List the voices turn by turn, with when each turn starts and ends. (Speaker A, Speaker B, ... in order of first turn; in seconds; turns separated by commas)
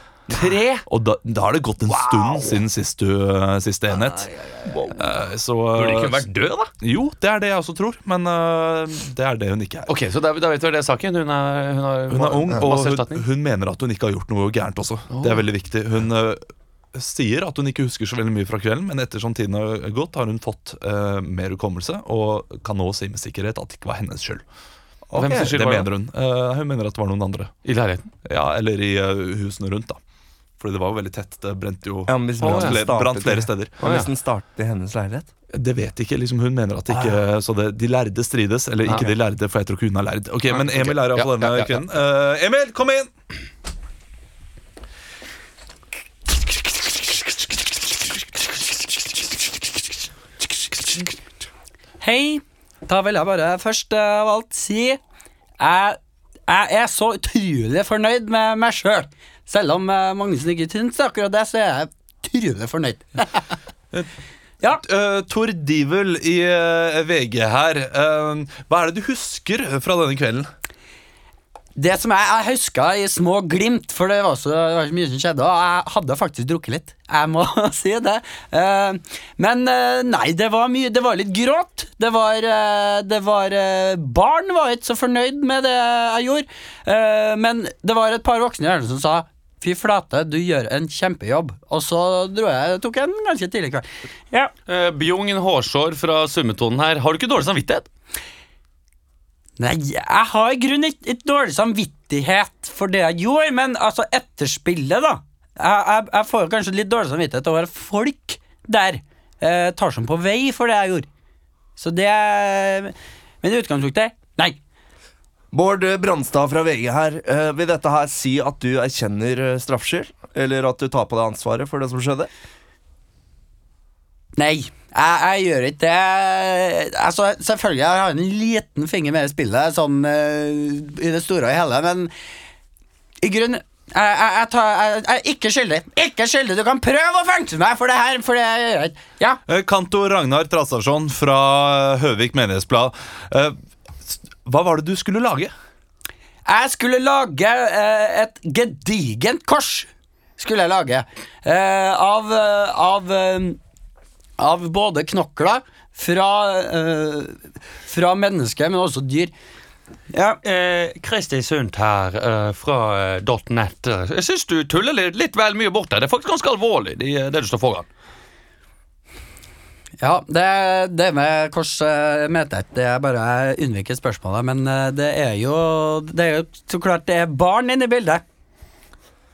Speaker A: 0.3-0.8, Speaker B: 0.3-4.3, Speaker A: 1.9-2.6, Speaker A: 3.9-4.2, Speaker C: 4.7-5.0, Speaker B: 4.8-6.3, Speaker A: 5.7-6.7, Speaker B: 6.8-9.9, Speaker A: 9.9-13.2, Speaker B: 12.1-24.4, Speaker A: 15.1-15.4, Speaker C: 25.1-25.5, Speaker A: 25.1-25.9, Speaker B: 25.2-27.5, Speaker A: 27.6-28.1, Speaker B: 28.2-30.0, Speaker B: 30.6-33.9, Speaker C: 32.1-35.3, Speaker A: 32.4-32.8, Speaker A: 33.8-34.1, Speaker B: 35.5-43.1, Speaker A: 38.9-39.1, Speaker A: 40.5-41.8, Speaker D: 52.0-55.0, Speaker D: 55.6-63.4, Speaker B: 64.7-70.5, Speaker D: 71.8-94.5, Speaker A: 94.7-97.8, Speaker D: 99.6-111.1, Speaker D: 111.8-114.6, Speaker C: 115.5-122.3, Speaker D: 124.4-132.1, Speaker D: 133.2-139.4, Speaker B: 139.5-143.5, Speaker B: 144.1-145.5, Speaker D: 146.4-153.6, Speaker D: 154.4-159.3, Speaker D: 160.1-160.4, Speaker A: 160.4-167.9, Speaker D: 170.0-178.2